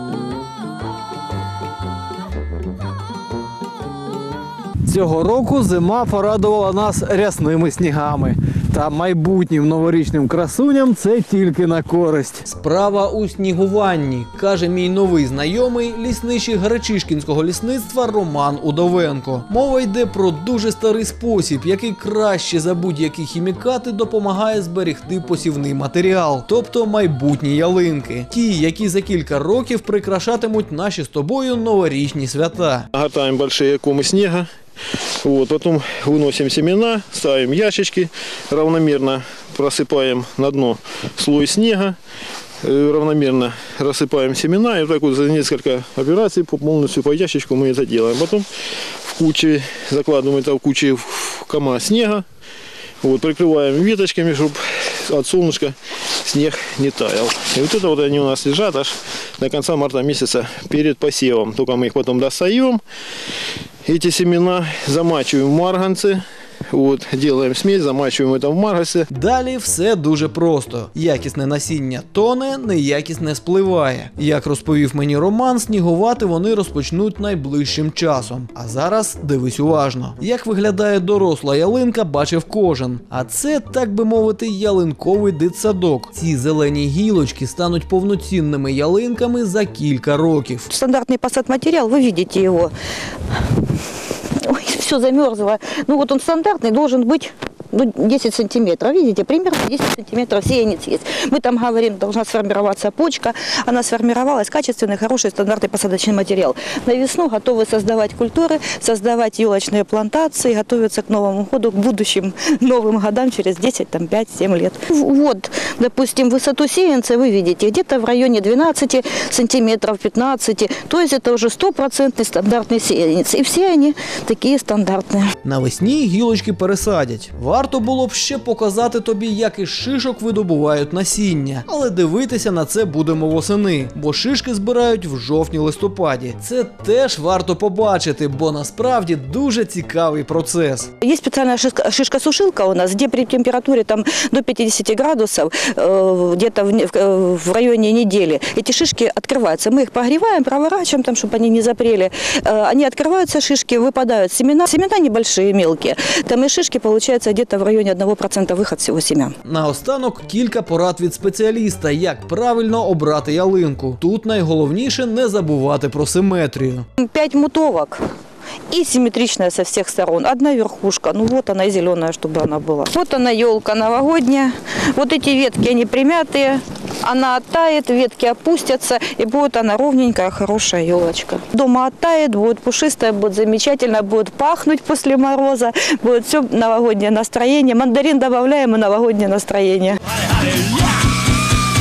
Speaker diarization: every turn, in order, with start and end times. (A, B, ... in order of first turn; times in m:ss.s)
0:04.8-0:32.9 A
0:32.9-0:34.5 B
0:35.2-0:42.0 B
0:42.6-0:48.4 B
0:49.1-0:52.2 B
0:53.0-0:55.7 B
0:56.2-1:02.8 B
1:03.8-1:09.0 B
1:09.1-1:30.7 A
1:30.7-1:32.7 C
1:34.4-2:05.3 C
2:05.4-2:20.9 A
2:21.0-2:39.3 C
2:39.4-2:46.8 A
2:47.0-2:48.1 C
2:48.7-3:10.0 C